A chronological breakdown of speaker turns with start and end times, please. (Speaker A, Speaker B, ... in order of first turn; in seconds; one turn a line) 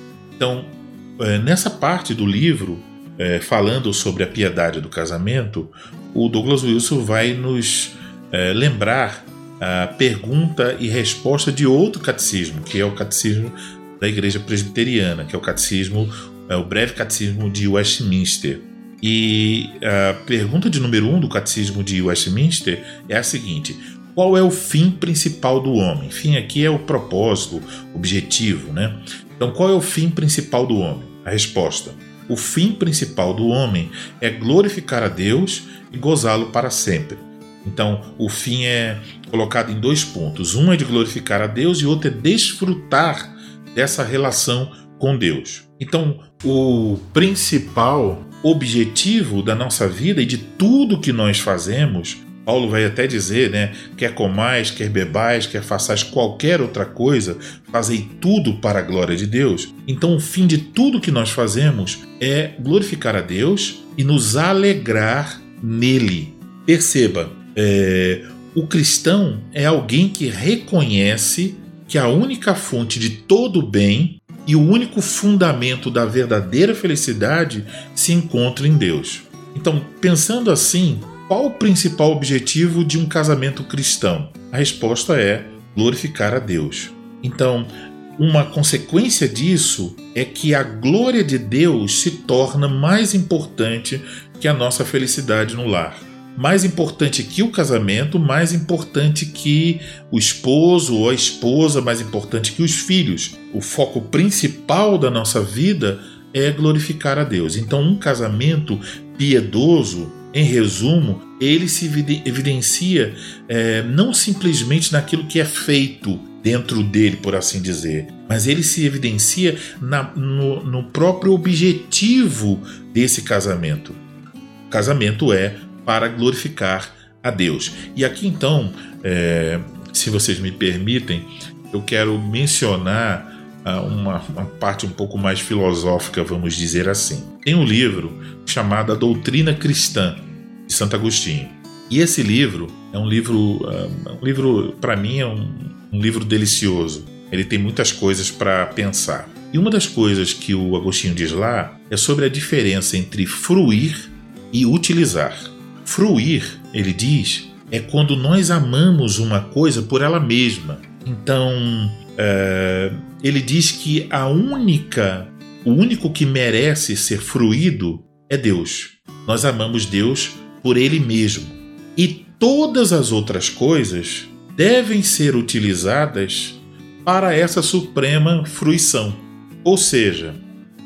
Speaker A: 0.4-124.0
Speaker A: 124.7-180.4